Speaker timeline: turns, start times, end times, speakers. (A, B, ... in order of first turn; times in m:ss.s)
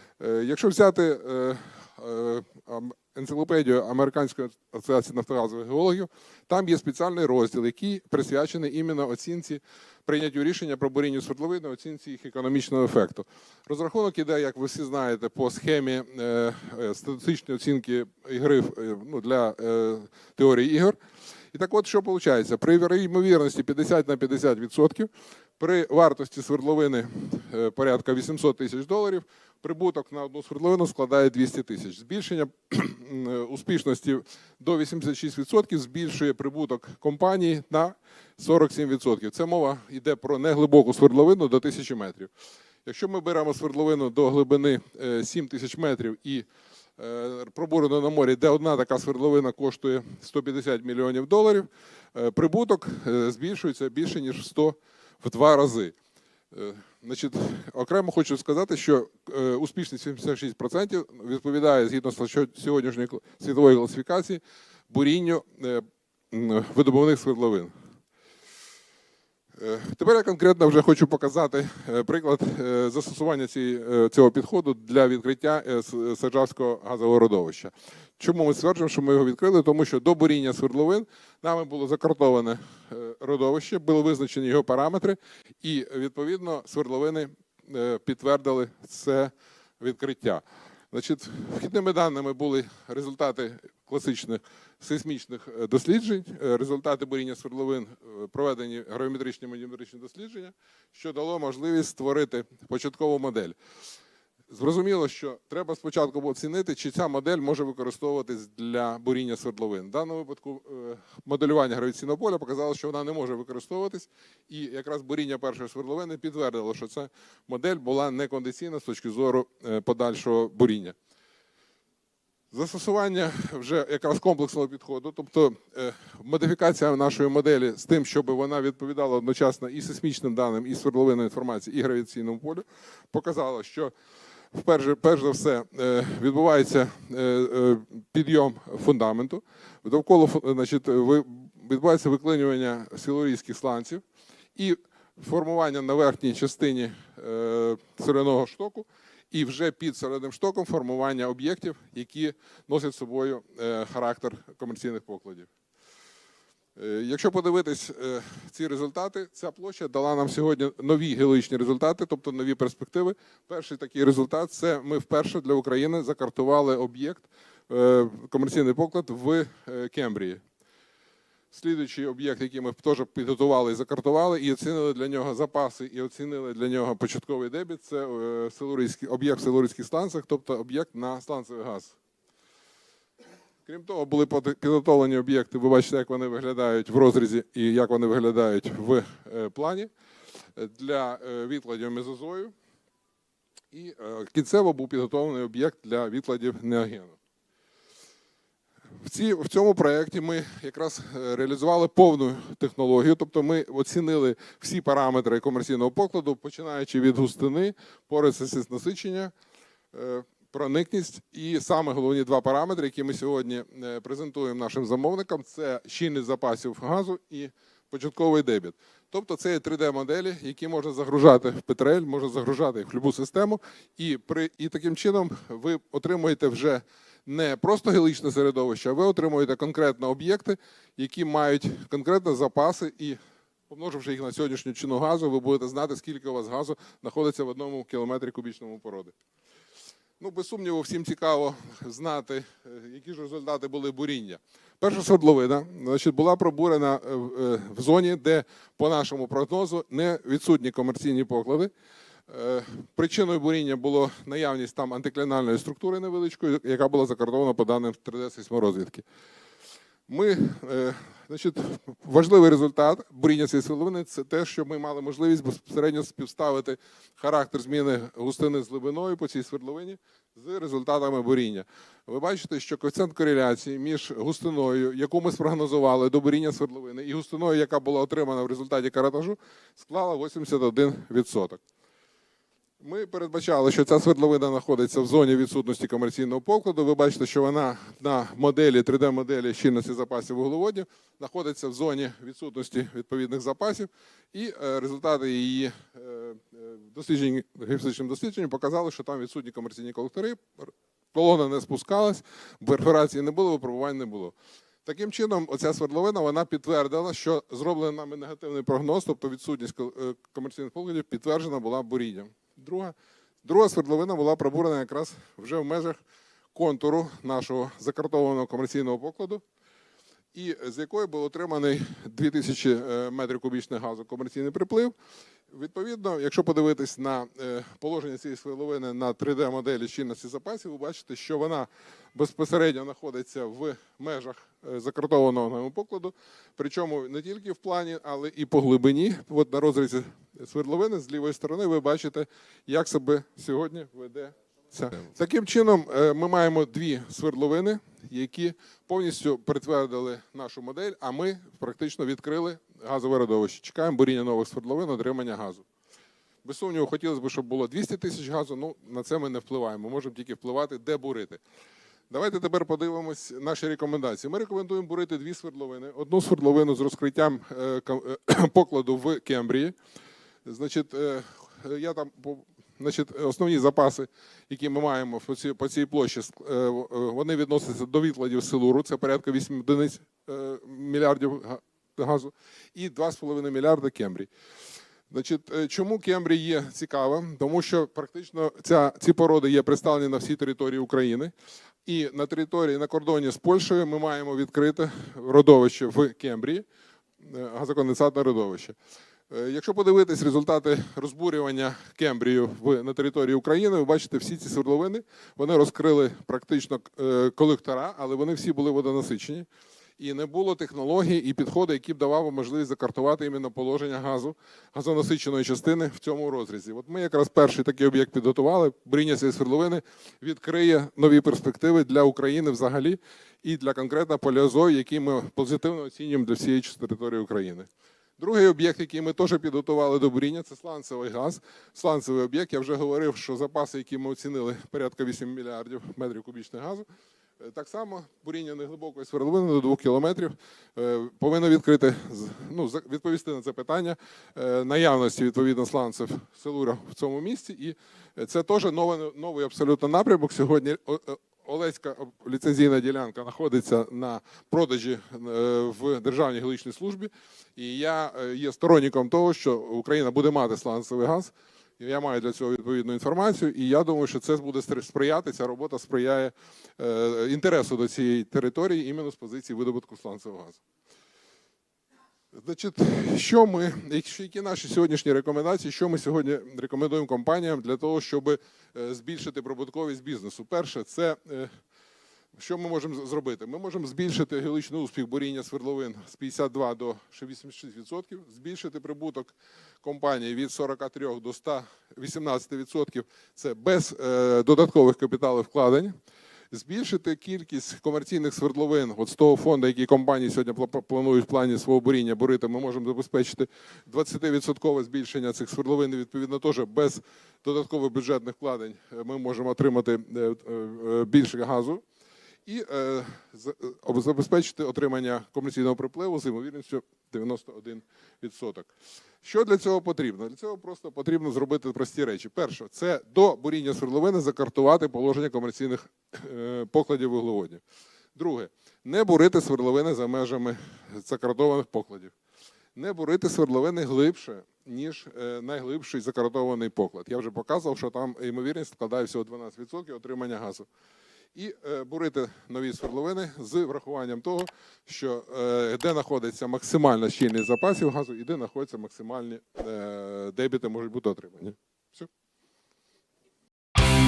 0:00.2-0:21.0 A
0:21.5-0:42.3 A
0:42.8-0:46.5 A
0:47.0-0:56.0 A
0:56.5-1:07.7 A
1:09.6-1:43.6 A
1:44.5-2:01.0 A
2:02.5-2:13.9 A
2:14.5-2:24.0 A
2:24.6-2:35.5 A
2:36.8-2:50.4 A
2:51.5-3:02.0 A
3:03.6-3:09.9 A
3:10.6-3:12.5 A
3:13.7-3:17.2 A
3:19.0-3:29.3 A
3:29.9-3:59.1 A
4:00.2-4:11.7 A
4:12.3-4:19.0 A
4:20.1-4:41.6 A
4:42.8-5:16.0 A
5:16.5-5:19.4 A
5:20.3-5:24.9 A
5:25.5-5:55.6 A
5:56.4-6:01.4 A
6:02.1-6:09.8 A
6:10.4-6:24.3 A
6:25.1-6:31.3 A
6:31.8-6:36.6 A
6:37.2-6:38.8 A
6:39.3-6:49.5 A
6:50.0-7:16.8 A
7:17.4-7:50.6 A
7:52.3-8:01.6 A
8:02.3-8:16.0 A
8:16.5-8:31.8 A
8:32.4-8:38.7 A
8:39.2-8:47.6 A
8:48.2-8:52.1 A
8:52.8-9:00.7 A
9:01.3-9:12.1 A